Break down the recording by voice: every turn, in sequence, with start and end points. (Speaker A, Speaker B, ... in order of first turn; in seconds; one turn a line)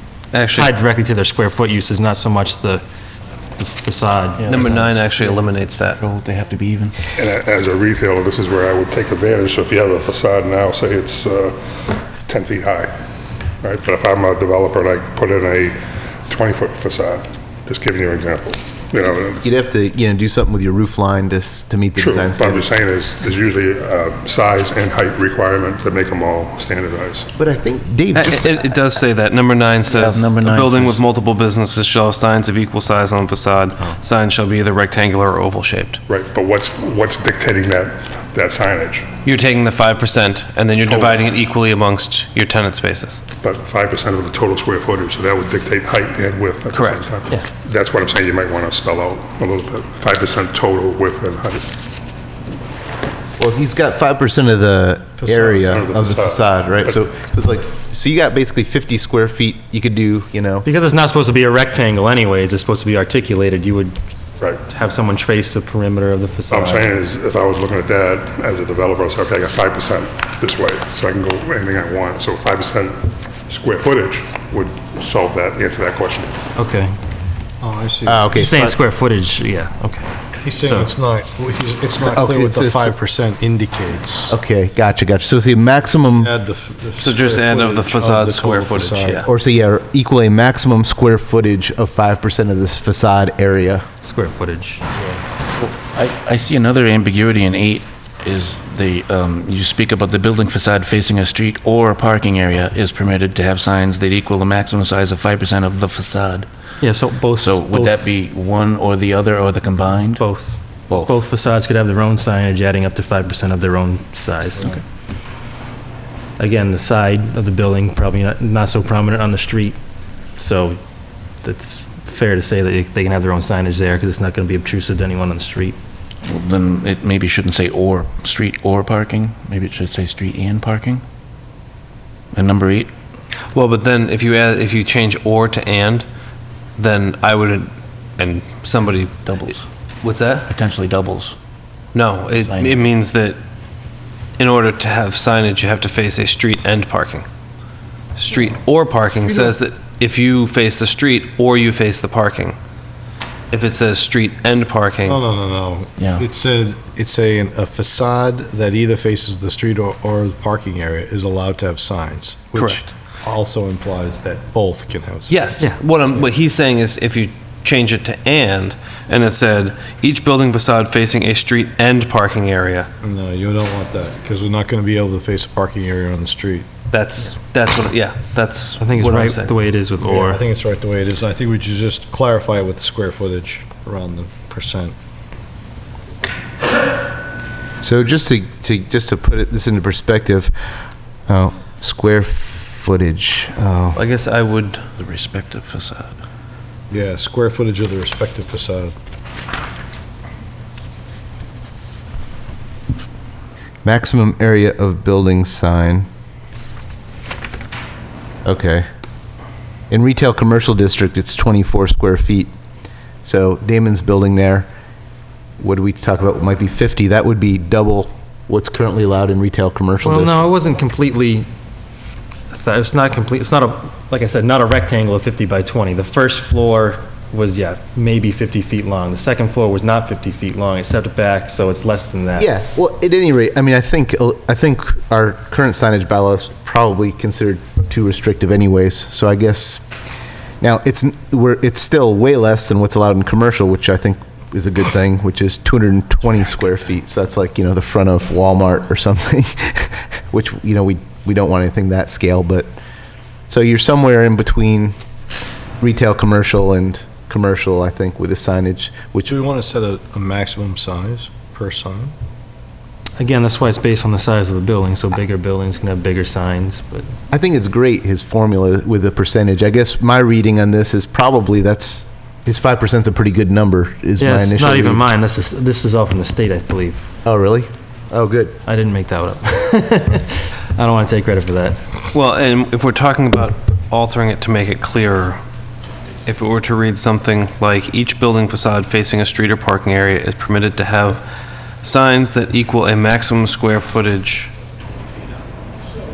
Speaker A: 0.3-0.7
Speaker B: 0.5-2.8
Speaker B: 3.6-4.8
Speaker C: 4.4-5.5
Speaker A: 4.5-6.0
Speaker C: 6.0-6.9
Speaker D: 7.2-12.9
Speaker D: 13.6-15.8
Speaker D: 16.3-19.5
Speaker E: 19.4-22.7
Speaker D: 21.9-27.3
Speaker E: 27.4-28.5
Speaker A: 28.1-36.0
Speaker C: 29.9-31.0
Speaker D: 36.1-39.2
Speaker A: 39.2-43.2
Speaker D: 40.8-41.2
Speaker D: 43.4-51.7
Speaker A: 46.7-47.1
Speaker E: 53.4-60.6
Speaker D: 55.6-57.0
Speaker B: 60.6-64.0
Speaker B: 64.7-66.9
Speaker D: 66.5-76.3
Speaker B: 76.6-77.0
Speaker F: 77.6-78.3
Speaker E: 78.0-78.8
Speaker B: 78.3-80.9
Speaker F: 80.4-84.3
Speaker E: 82.1-82.9
Speaker E: 84.3-86.3
Speaker F: 86.2-89.3
Speaker A: 87.0-89.3
Speaker E: 89.2-93.8
Speaker B: 94.0-94.8
Speaker C: 95.6-106.5
Speaker B: 106.8-108.0
Speaker C: 107.3-110.2
Speaker B: 110.2-114.8
Speaker C: 110.9-111.2
Speaker B: 116.4-119.8
Speaker B: 120.3-120.8
Speaker B: 121.4-125.8
Speaker C: 126.2-131.0
Speaker C: 132.3-132.9
Speaker A: 133.5-136.1
Speaker A: 136.8-140.5
Speaker C: 139.2-139.6
Speaker C: 140.5-141.3
Speaker A: 141.9-143.4
Speaker C: 142.4-142.9
Speaker A: 144.4-147.2
Speaker A: 148.2-152.6
Speaker A: 153.5-155.2
Speaker F: 155.0-165.4
Speaker C: 156.0-156.2
Speaker A: 162.5-162.8
Speaker A: 165.3-172.9
Speaker F: 173.0-176.7
Speaker A: 176.9-179.5
Speaker B: 178.8-180.4
Speaker F: 180.0-184.9
Speaker E: 187.8-190.5
Speaker E: 191.3-194.0
Speaker A: 193.9-194.9
Speaker C: 195.0-196.1
Speaker F: 196.9-198.9
Speaker E: 203.8-206.1
Speaker E: 208.4-208.8
Speaker E: 209.9-212.5
Speaker E: 213.2-214.7
Speaker E: 215.6-220.5
Speaker B: 220.0-221.5
Speaker B: 222.5-232.5
Speaker E: 232.4-239.8
Speaker E: 240.6-252.7
Speaker E: 253.5-254.9
Speaker E: 255.8-259.3
Speaker F: 259.3-262.1
Speaker B: 263.2-267.1
Speaker E: 267.3-275.0
Speaker B: 274.2-277.1
Speaker E: 277.2-278.6
Speaker B: 278.6-281.9
Speaker A: 282.1-285.4
Speaker A: 286.2-291.2
Speaker A: 291.8-294.5